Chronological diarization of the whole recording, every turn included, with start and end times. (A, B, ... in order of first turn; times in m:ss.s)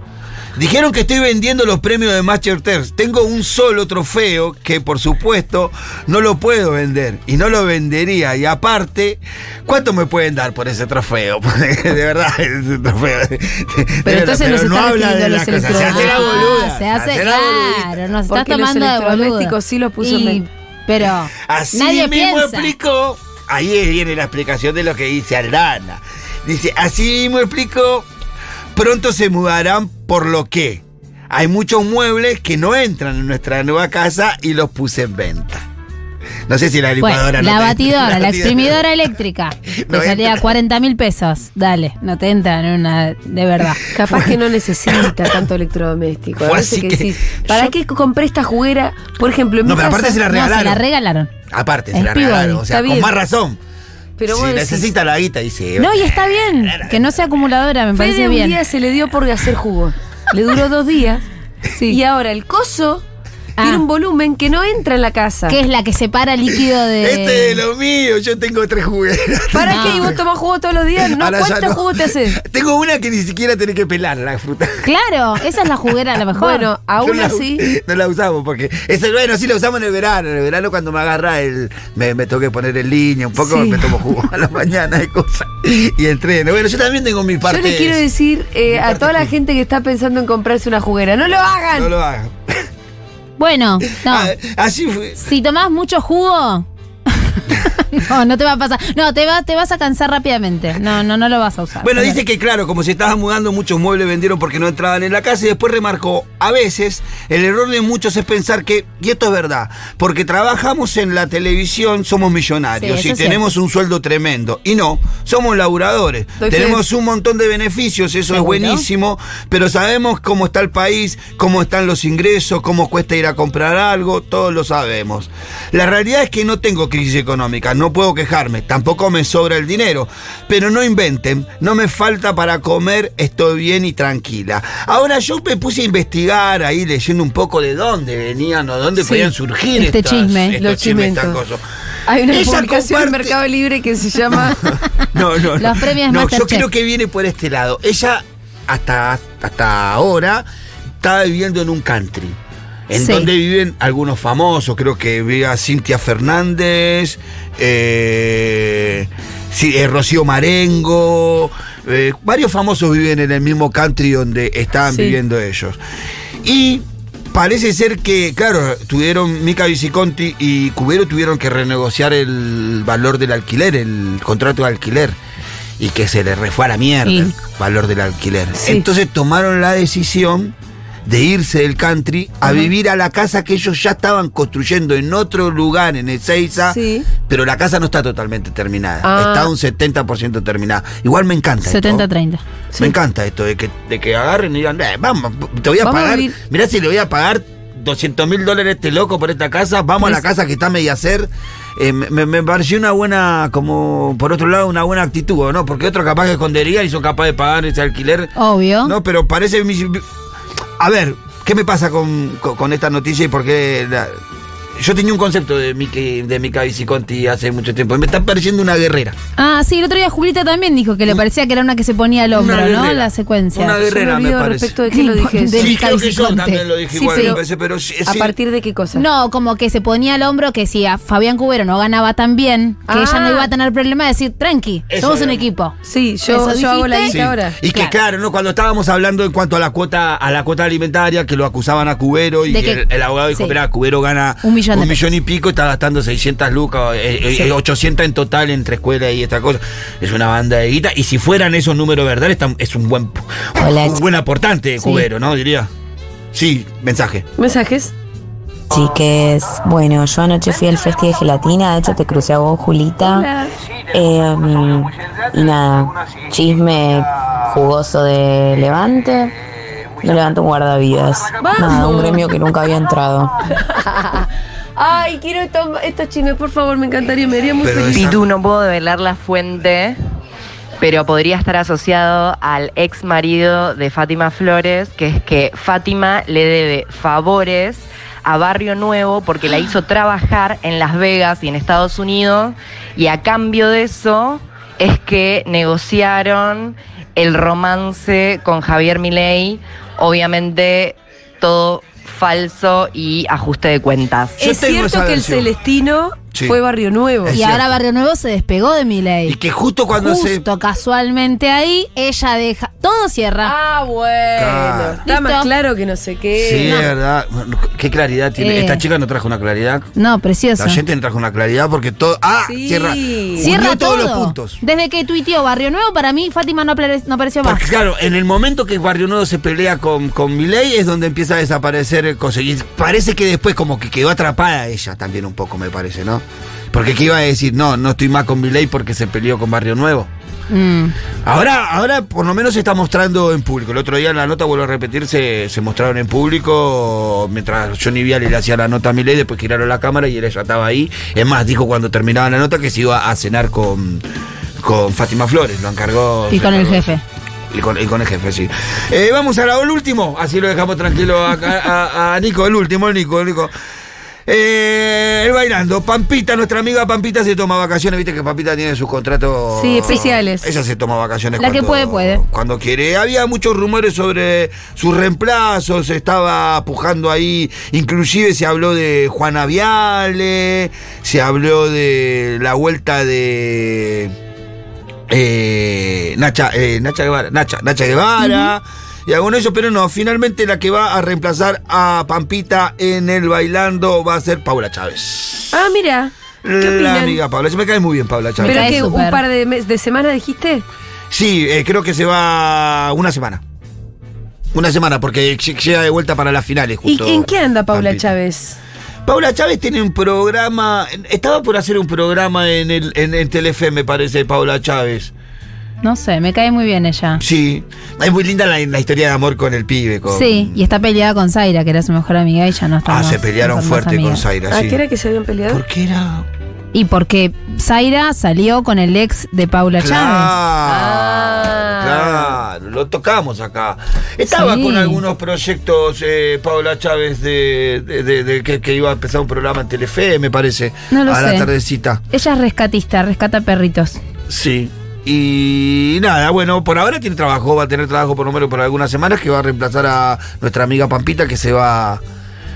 0:00.6-0:18.0 A
0:14.0-0:16.5 B
0:15.6-0:22.7 C
0:18.3-0:20.4 B
0:21.4-0:28.1 A
0:28.7-0:35.6 A
0:36.5-0:38.9 A
0:37.0-0:43.8 C
0:39.8-0:40.5 A
0:43.9-0:50.2 B
0:44.0-0:45.2 A
0:46.4-0:47.7 A
0:49.6-0:50.8 A
0:50.2-0:51.3 C
0:51.5-0:53.6 A
0:51.9-0:52.6 C
0:52.7-0:53.1 B
0:54.2-0:54.9 B
0:54.3-0:57.2 A
0:55.8-0:58.6 C
0:58.0-1:01.2 B
1:01.7-1:02.0 C
1:01.9-1:03.0 B
1:03.6-1:03.8 C
1:03.6-1:05.6 B
1:05.5-1:07.6 C
1:06.6-1:10.2 A
1:09.5-1:12.4 B
1:09.7-1:10.1 C
1:11.0-1:14.9 A
1:14.8-1:16.7 C
1:16.4-1:17.6 B
1:17.0-1:28.0 A
1:23.4-1:24.1 C
1:27.4-1:31.9 B
1:28.7-1:29.3 A
1:31.7-1:32.7 A
1:33.4-1:34.3 C
1:33.9-1:35.2 A
1:35.2-1:42.2 C
1:41.8-2:21.6 A
1:52.8-1:53.4 C
1:56.4-1:56.8 B
1:58.3-1:58.8 C
2:19.0-2:19.3 B
2:19.8-2:20.6 C
2:20.6-2:21.4 B
2:22.1-2:24.6 B
2:22.3-2:23.4 A
2:24.3-2:30.5 A
2:25.0-2:26.6 C
2:31.0-2:32.4 A
2:32.9-2:45.8 A
2:33.0-2:33.3 C
2:44.9-2:45.2 B
2:46.4-2:55.2 A
2:55.8-3:00.6 A
2:57.1-2:57.3 C
2:58.6-2:58.9 B
3:01.1-3:12.1 A
3:06.6-3:07.1 B
3:09.0-3:09.5 B
3:11.6-3:12.4 C
3:12.8-3:30.1 A
3:15.8-3:16.4 B
3:28.4-3:29.0 C
3:30.8-3:34.2 A
3:34.8-3:39.2 A
3:39.4-3:43.8 C
3:42.3-3:44.8 A
3:43.8-3:45.8 B
3:44.9-3:47.4 C
3:45.6-3:48.4 A
3:46.9-3:47.4 B
3:48.0-3:49.0 B
3:48.9-3:55.8 C
3:52.9-3:53.5 B
3:54.9-3:55.5 A
3:55.8-3:57.6 B
3:56.3-3:57.2 C
3:57.1-4:15.7 A
4:02.5-4:03.6 C
4:04.4-4:05.1 C
4:13.6-4:14.0 D
4:16.3-4:17.3 A
4:17.4-4:17.9 B
4:18.7-4:23.3 D
4:23.0-4:23.5 B
4:23.9-4:29.3 D
4:30.0-4:33.3 D
4:31.4-4:32.2 B
4:33.6-4:34.2 B
4:34.8-4:38.2 B
4:37.6-4:38.2 A
4:37.9-4:40.0 E
4:40.8-5:04.4 E
5:04.4-5:07.4 B
5:04.4-5:05.5 A
5:07.2-5:07.8 A
5:07.3-5:09.4 C
5:09.3-5:10.5 A
5:09.9-5:13.5 C
5:13.4-5:16.9 B
5:14.4-5:15.0 A
5:15.1-5:15.5 C
5:16.4-5:19.9 A
5:18.4-5:18.8 C
5:20.0-5:20.8 C
5:20.6-5:24.6 A
5:22.4-5:23.5 B
5:23.4-5:27.6 C
5:27.4-5:40.1 A
5:40.5-5:41.0 C
5:41.2-5:54.0 A
5:54.6-5:56.9 A
5:56.3-5:57.0 C
5:57.5-6:03.5 A
6:04.3-6:24.2 A
6:09.5-6:10.6 B
6:11.4-6:12.2 C
6:25.1-6:35.6 A
6:35.5-6:37.2 B
6:36.4-6:38.9 A
6:38.4-6:39.2 C
6:38.4-6:40.6 B
6:41.1-6:43.4 A
6:44.5-6:48.1 A
6:46.9-6:48.6 B
6:49.1-6:55.1 A
6:55.8-6:57.2 C
6:57.2-7:00.6 A
7:00.1-7:04.2 C
7:02.8-7:04.8 A
7:04.5-7:05.6 B
7:05.5-7:06.3 A
7:06.7-7:10.3 C
7:09.8-7:22.0 A
7:10.6-7:12.4 B
7:14.3-7:15.0 C
7:20.9-7:21.5 C
7:22.1-7:24.0 C
7:24.3-7:32.0 A